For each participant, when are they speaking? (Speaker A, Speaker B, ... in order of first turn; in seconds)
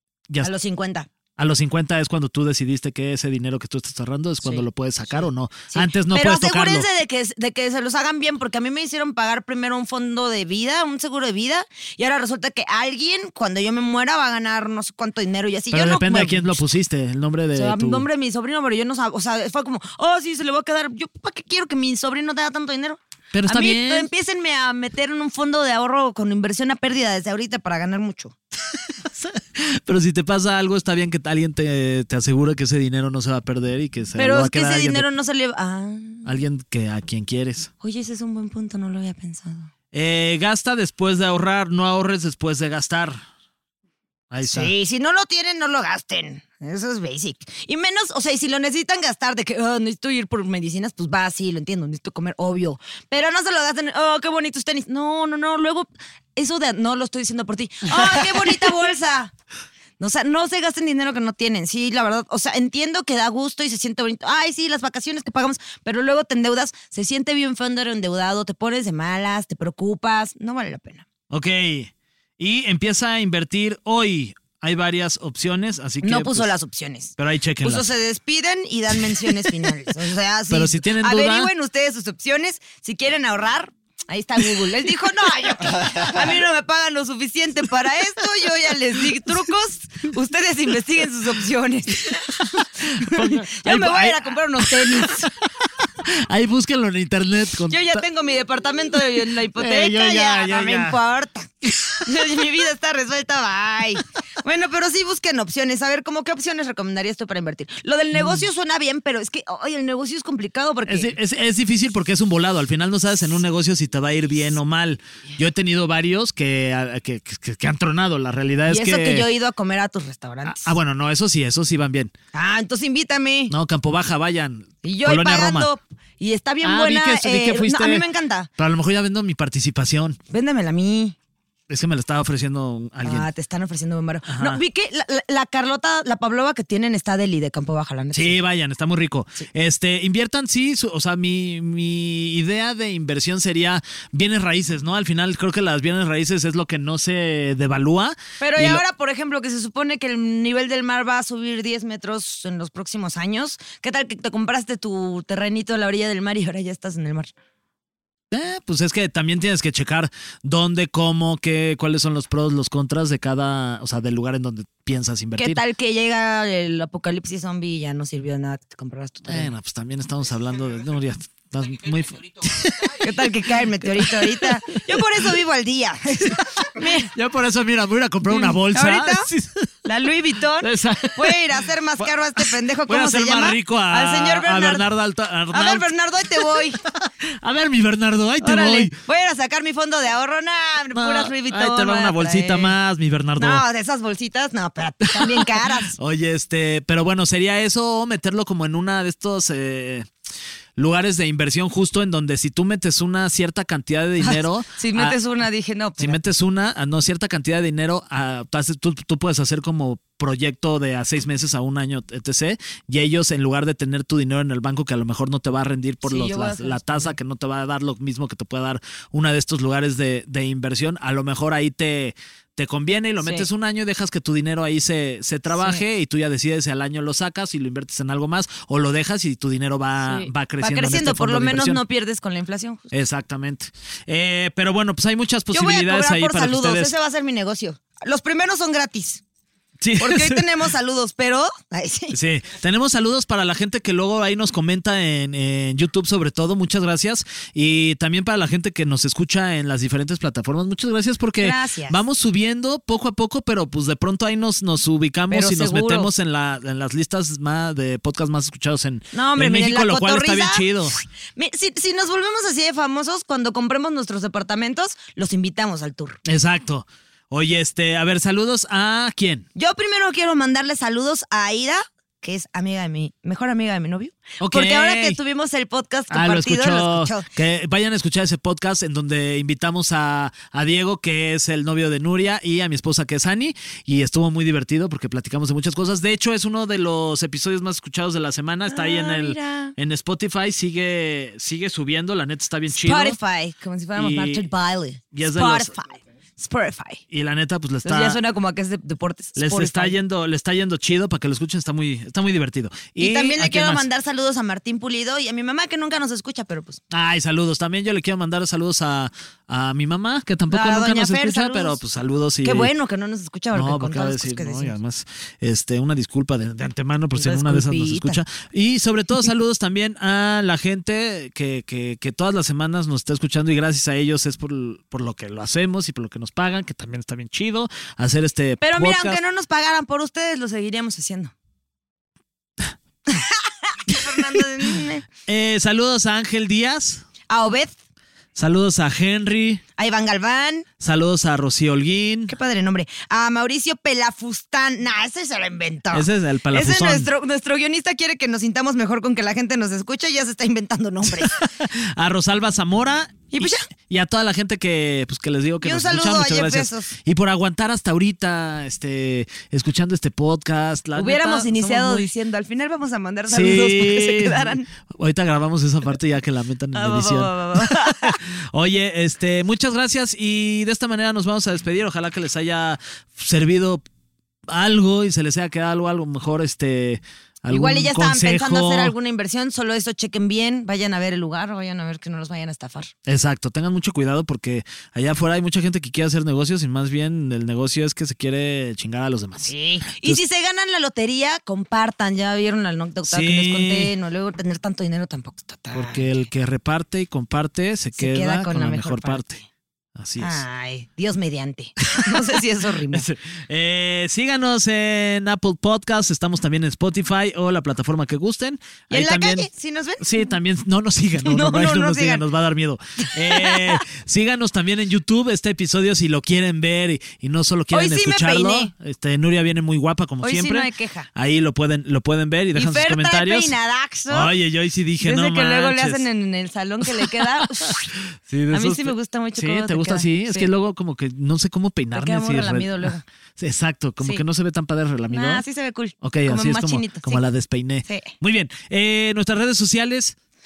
Speaker A: 0.4-1.1, 4.4-16.6, 17.5-28.3, 34.1-36.3, 37.8-39.7, 44.4-59.3, 60.0-71.0, 76.0-95.3, 97.7-101.5, 102.0-111.1, 118.7-120.7, 122.3-123.5, 124.8-128.5, 130.3-131.1, 133.0-138.4, 148.4-157.3, 165.4-169.5, 173.0-177.1, 178.2-179.3, 179.8-184.8, 185.5-186.8, 188.4-192.7, 193.4-195.9, 204.2-206.2, 216.0-217.2, 223.2-223.4, 230.0-232.9, 235.5-239.2, 240.0-242.2, 251.4-252.0, 255.3-256.1, 259.1-260.6, 261.4-266.2, 269.6-277.2, 288.7-289.7, 292.7-297.0, 297.8-299.9, 303.0-306.8, 310.5-311.8, 312.4-314.8, 317.1-318.2, 328.6-331.3, 333.1-335.0, 337.3-337.8, 339.8-340.6, 342.3-351.4, 353.3-353.7, 355.6-356.9, 360.9-364.6, 366.7-368.2, 377.5-382.9, 389.5-396.2, 398.0-399.4, 400.2-403.1, 408.9-410.1, 411.2-412.2, 413.1-413.8, 417.7-418.7, 420.2-421.1, 422.6-424.3, 425.0-427.9, 428.5-430.5, 431.9-433.0, 435.1-437.2, 437.9-438.1
Speaker B: 1.4-6.8, 15.7-18.1, 23.3-24.1, 29.0-35.0, 36.2-37.7, 39.9-43.2, 44.3-44.7, 71.3-76.5, 77.2-77.9, 80.5-81.5, 92.6-95.5, 96.0-98.0, 99.1-101.0, 101.7-102.0, 108.1-108.4, 110.9-119.3, 120.5-122.1, 123.5-125.7, 126.6-128.1, 128.6-130.2, 131.7-133.3, 134.3-134.6, 138.1-148.8, 158.3-165.6, 169.3-175.0, 177.1-179.7, 180.6-188.9, 190.9-193.6, 195.1-200.1, 200.8-205.2, 206.0-231.8, 232.9-236.9, 239.8-240.5, 242.1-260.9, 266.2-269.4, 274.4-275.2, 276.1-293.2, 293.9-294.5, 295.1-295.7, 297.1-298.2, 299.4-303.9, 306.9-312.7, 313.5-329.2, 335.3-337.0, 338.4-339.6, 340.8-342.3, 345.9-347.1, 351.1-362.1, 363.3-373.8, 374.5-378.9, 383.1-390.2, 393.1-393.9, 395.7-399.4, 399.9-400.4, 401.8-402.2, 402.9-423.5, 424.1-426.0, 428.3-435.4, 436.0-440.1